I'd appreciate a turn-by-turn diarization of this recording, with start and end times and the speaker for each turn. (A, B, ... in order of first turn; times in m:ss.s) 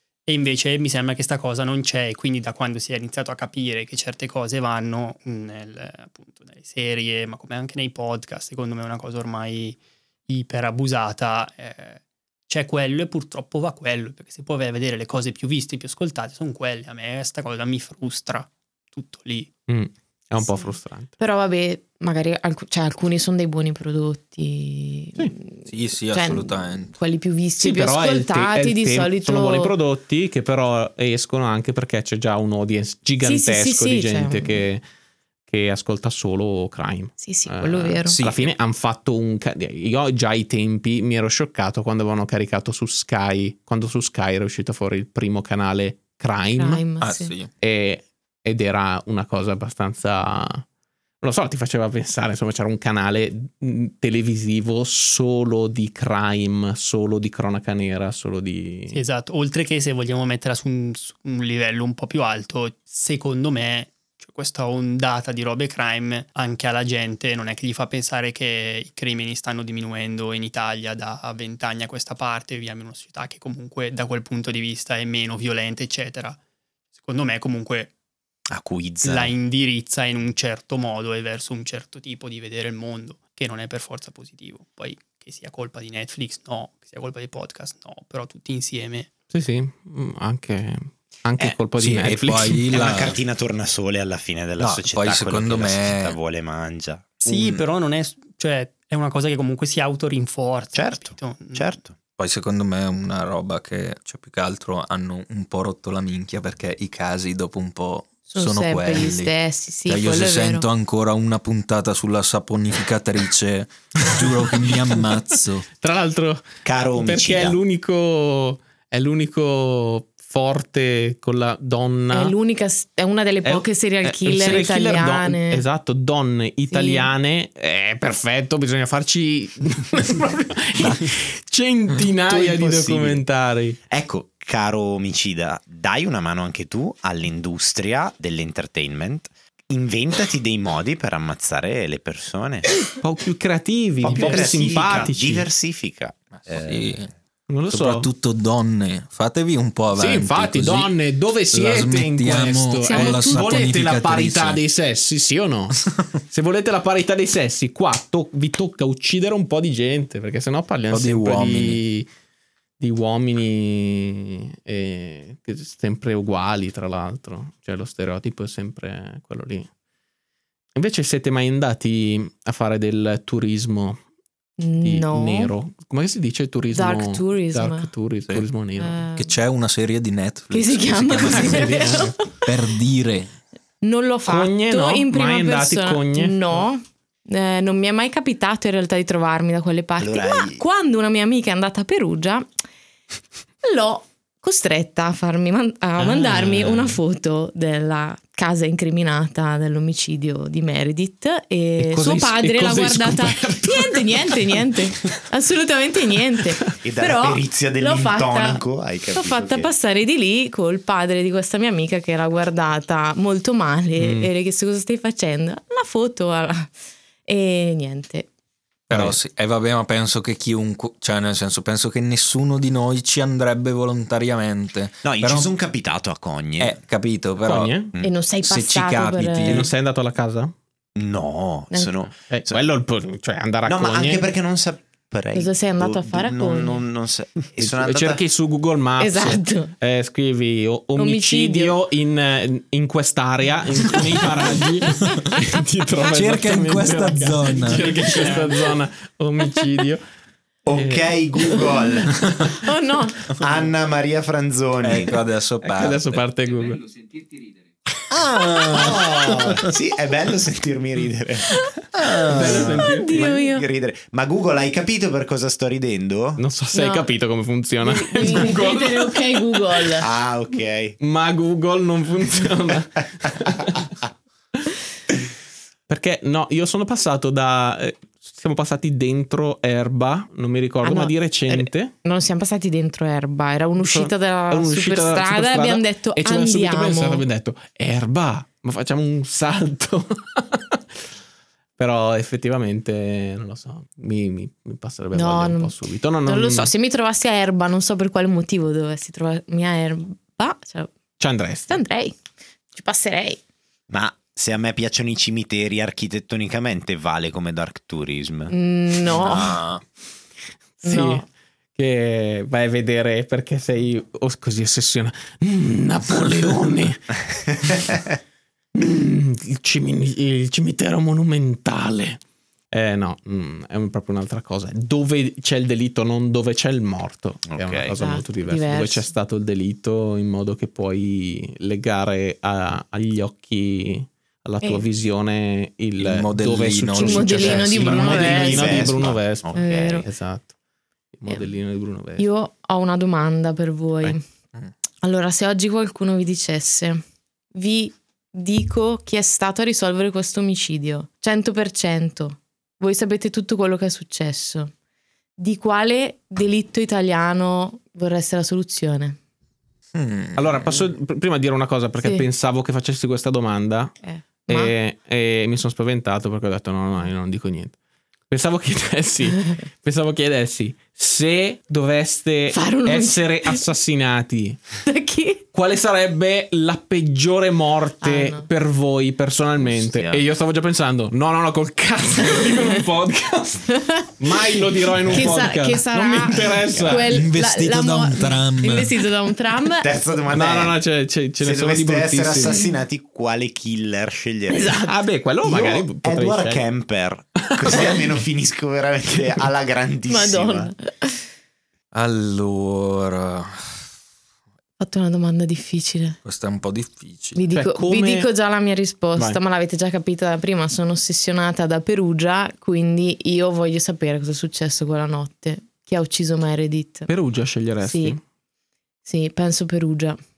0:00.2-0:19.5 A
0:19.7-0:21.1 B
0:20.4-0:29.7 C
0:25.7-0:27.0 D
0:27.6-0:34.8 B
0:33.2-0:34.7 C
0:35.5-0:46.8 B
0:37.2-0:38.2 C
0:38.1-0:38.5 D
0:46.6-0:47.3 C
0:47.0-0:47.5 D
0:47.6-0:50.6 B
0:51.2-0:59.0 B
0:58.9-1:16.4 A
1:17.0-1:17.9 A
1:18.5-1:19.3 E
1:19.0-1:29.1 A
1:29.3-1:32.7 B
1:31.8-1:33.2 D
1:32.7-1:37.6 E
1:34.6-1:36.2 D
1:37.2-1:41.7 A
1:40.7-1:41.9 E
1:42.2-1:49.3 D
1:48.3-1:50.6 C
1:49.8-1:55.7 D
1:54.1-2:02.3 B
1:56.6-1:57.6 E
2:02.1-2:05.6 C
2:03.4-2:13.8 B
2:06.7-2:07.1 C
2:12.3-2:13.2 E
2:13.9-2:22.8 E
2:23.0-2:25.5 B
2:24.0-2:27.1 E
2:26.3-2:27.1 D
2:27.5-2:28.1 B
2:27.7-2:30.9 D
2:29.9-2:42.1 B
2:31.5-2:34.6 D
2:32.8-2:33.8 C
2:40.9-2:41.8 D
2:42.8-2:49.7 B
2:50.7-2:54.0 B
2:54.6-2:55.5 C
2:54.8-2:59.0 B
2:56.7-2:57.9 C
2:58.8-2:59.4 C
2:59.2-3:03.3 D
3:00.5-3:02.2 C
3:01.2-3:02.2 B
3:03.8-3:12.4 C
3:04.2-3:06.6 B
3:10.0-3:10.6 E
3:13.6-3:28.6 C
3:16.0-3:17.0 B
3:21.8-3:24.7 B
3:26.8-3:29.7 E
3:29.1-3:36.7 C
3:34.0-3:34.3 B
3:37.3-3:38.3 C
3:38.9-3:45.5 D
3:45.0-3:46.8 E
3:46.6-3:47.8 D
3:47.4-3:47.9 B
3:48.0-3:49.7 C
3:48.4-3:49.7 D
3:49.4-3:50.5 B
3:51.0-3:52.6 E
3:51.7-3:52.0 C
3:52.3-3:54.3 B
3:53.6-3:58.2 E
3:55.3-3:56.8 C
3:57.6-4:10.0 B
3:59.0-3:59.7 C
4:01.0-4:01.8 C
4:06.0-4:07.9 D
4:07.7-4:08.6 A
4:10.6-4:12.4 E
4:10.7-4:11.1 B
4:12.4-4:13.4 C
4:13.3-4:15.2 E
4:14.8-4:16.2 D
4:15.6-4:16.8 B
4:18.1-4:21.5 E
4:18.5-4:18.9 D
4:21.9-4:22.8 D
4:22.0-4:26.4 E
4:22.3-4:23.3 B
4:22.8-4:23.6 C
4:26.4-4:29.8 B
4:26.7-4:27.1 C
4:27.8-4:30.0 C
4:30.0-4:31.0 E
4:31.0-4:33.9 B
4:35.9-4:41.9 B
4:40.8-4:47.2 C
4:43.8-4:51.0 B
4:51.8-4:56.7 B
4:55.1-5:00.9 C
5:01.2-5:01.8 B
5:01.7-5:02.2 C
5:02.7-5:03.4 C
5:03.9-5:08.5 E
5:08.5-5:09.6 C
5:09.1-5:09.8 D
5:10.8-5:11.2 B
5:10.8-5:11.2 C
5:11.8-5:18.0 B
5:18.7-5:40.5 B
5:27.5-5:27.9 E
5:27.9-5:29.1 C
5:36.0-5:38.1 D
5:36.9-5:39.0 C
5:37.5-5:40.1 E
5:39.5-5:40.0 C
5:41.1-5:42.2 B
5:42.2-5:44.2 C
5:45.0-5:47.0 C
5:47.5-5:54.7 C
5:55.4-5:59.2 C
5:59.9-6:00.8 D
6:00.4-6:04.0 B
6:02.0-6:02.2 C
6:04.0-6:04.7 C
6:04.5-6:07.8 B
6:08.3-6:14.6 B
6:12.5-6:13.6 C
6:14.8-6:15.4 C
6:15.5-6:27.2 B
6:18.0-6:18.5 C
6:19.7-6:20.2 E
6:22.3-6:22.7 C
6:23.8-6:30.0 C
6:26.7-6:27.0 E
6:27.0-6:29.0 D
6:29.8-6:30.8 E
6:30.3-6:32.6 B
6:31.4-6:34.8 E
6:34.5-6:34.8 C
6:34.6-6:36.6 B
6:35.4-6:40.7 E
6:37.4-6:38.0 B
6:40.1-6:41.2 C
6:41.9-6:43.7 D
6:44.8-6:46.2 C
6:46.2-6:47.4 D
6:47.3-6:57.1 C
6:47.5-6:48.3 B
6:49.2-6:49.4 B
6:57.1-6:58.2 B
6:57.8-6:58.2 C
6:59.0-7:00.2 C